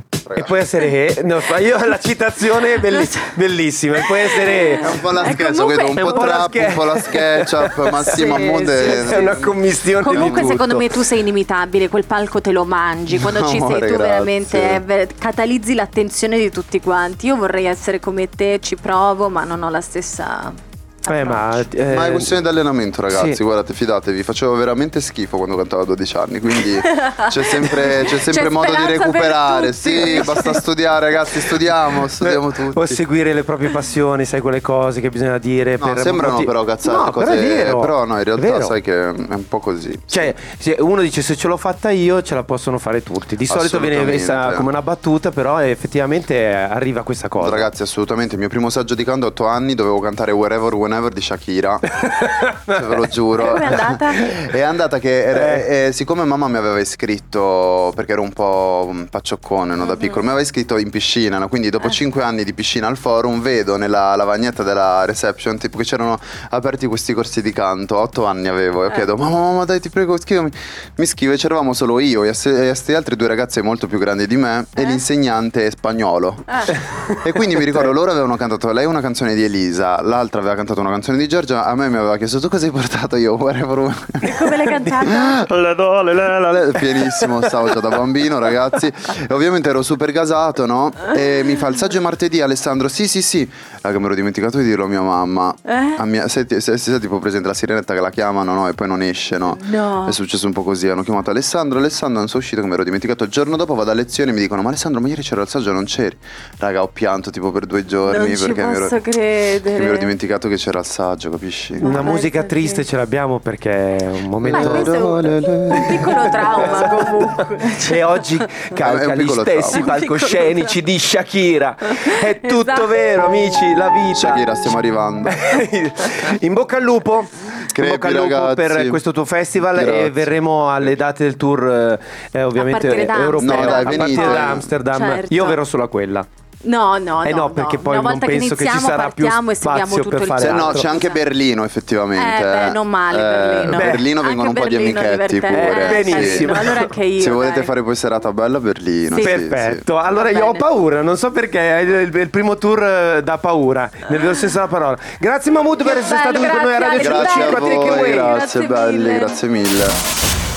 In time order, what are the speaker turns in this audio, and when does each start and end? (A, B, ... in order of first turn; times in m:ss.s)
0:00.2-0:00.6 A
0:00.4-0:05.4 B
0:02.6-0:03.3 C
0:04.0-0:06.5 C
0:04.8-0:10.6 A
0:05.9-0:08.2 B
0:08.0-0:09.4 C
0:08.7-0:10.9 B
0:10.0-0:21.7 C
0:13.1-0:14.8 A
0:21.1-0:22.4 B
0:21.9-0:33.0 A
0:23.1-0:23.4 B
0:26.6-0:30.6 C
0:32.2-0:38.8 B
0:35.8-0:40.3 A
0:40.1-0:47.7 B
0:43.5-0:44.7 A
0:47.4-1:24.4 A
0:52.0-0:52.8 B
0:53.4-0:54.4 C
0:55.3-0:55.7 B
0:59.9-1:00.2 C
1:17.1-1:17.9 B
1:24.2-1:27.7 B
1:24.2-1:25.4 C
1:25.0-1:49.0 A
1:35.7-1:36.0 C
1:39.5-1:40.2 C
1:48.0-1:50.1 C
1:49.6-1:51.9 A
1:51.8-1:52.8 C
1:51.8-1:55.2 B
1:54.4-1:56.9 A
1:54.5-1:58.7 C
1:55.7-2:04.7 B
1:58.8-1:59.9 A
1:59.7-2:00.8 C
2:01.9-2:03.4 C
2:04.1-2:05.4 A
2:05.3-2:16.3 B
2:07.7-2:09.0 A
2:09.6-2:11.0 A
2:12.6-2:15.6 C
2:13.4-2:14.7 A
2:16.6-2:21.2 C
2:17.2-2:20.9 B
2:20.4-2:26.6 A
2:22.1-2:27.7 C
2:23.7-2:24.0 B
2:25.5-2:26.9 B
2:27.2-2:29.9 A
2:29.1-2:29.4 C
2:29.1-2:38.3 B
2:30.1-2:30.7 C
2:35.8-2:39.4 C
2:37.0-2:40.0 A